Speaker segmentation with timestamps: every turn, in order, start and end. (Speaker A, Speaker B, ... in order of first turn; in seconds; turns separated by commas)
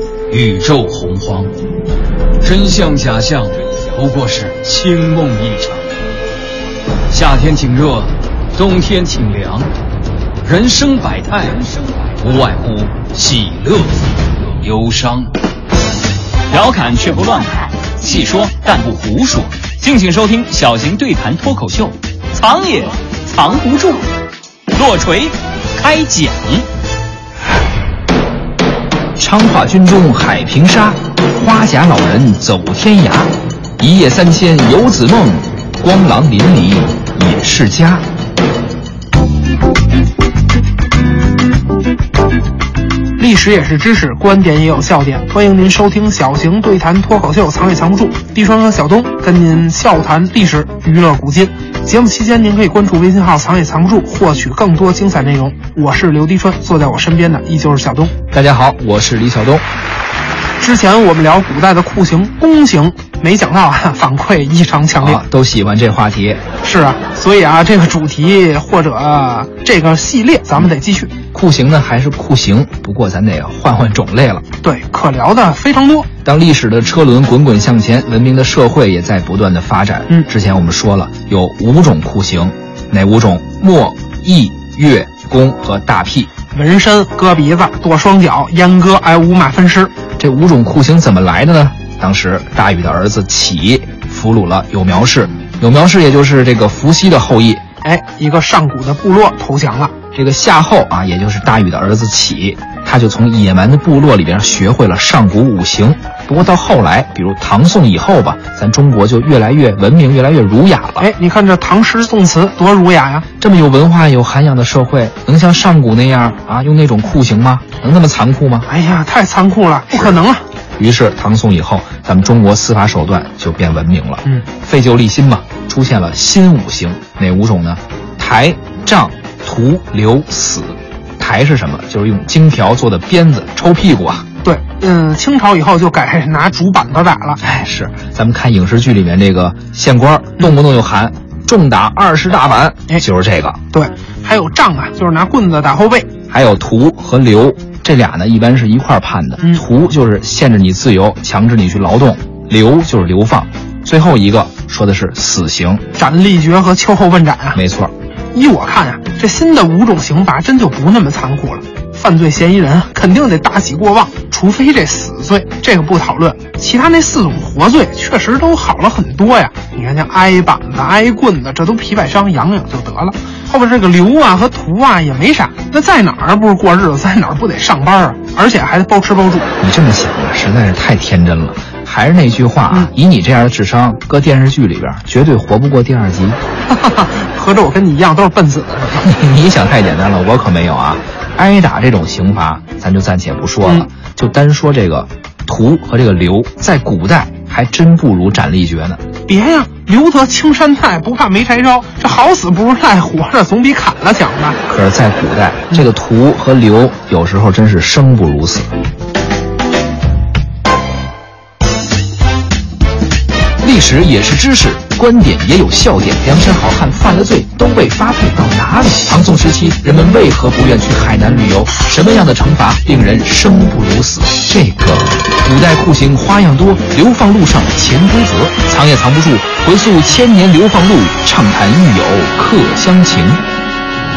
Speaker A: 0.3-1.5, Speaker A: 2.4-5.9, Speaker A: 7.1-9.7, Speaker A: 10.4-14.1, Speaker A: 14.6-15.3, Speaker B: 16.5-24.1, Speaker B: 24.7-26.6, Speaker C: 29.2-38.0, Speaker D: 43.2-58.1, Speaker C: 58.3-59.6, Speaker D: 60.6-65.2, Speaker C: 65.0-66.5, Speaker D: 66.6-71.1, Speaker C: 71.3-74.4, Speaker D: 74.6-76.1, Speaker C: 76.2-86.3, Speaker D: 86.5-89.9, Speaker C: 90.2-97.6, Speaker D: 97.8-99.9, Speaker C: 100.1-111.1, Speaker D: 111.0-113.3, Speaker C: 113.4-118.7, Speaker D: 118.7-120.4, Speaker C: 120.8-134.3, Speaker D: 134.4-137.4, Speaker C: 137.4-143.6, Speaker D: 143.7-146.1, Speaker C: 146.3-155.8, Speaker D: 155.9-157.6, Speaker C: 157.5-157.9, Speaker D: 158.3-179.5, Speaker C: 179.6-186.4, Speaker D: 186.7-189.1, Speaker C: 189.0-199.0, Speaker D: 199.3-204.6, Speaker C: 204.7-208.7, Speaker C: 213.6-233.4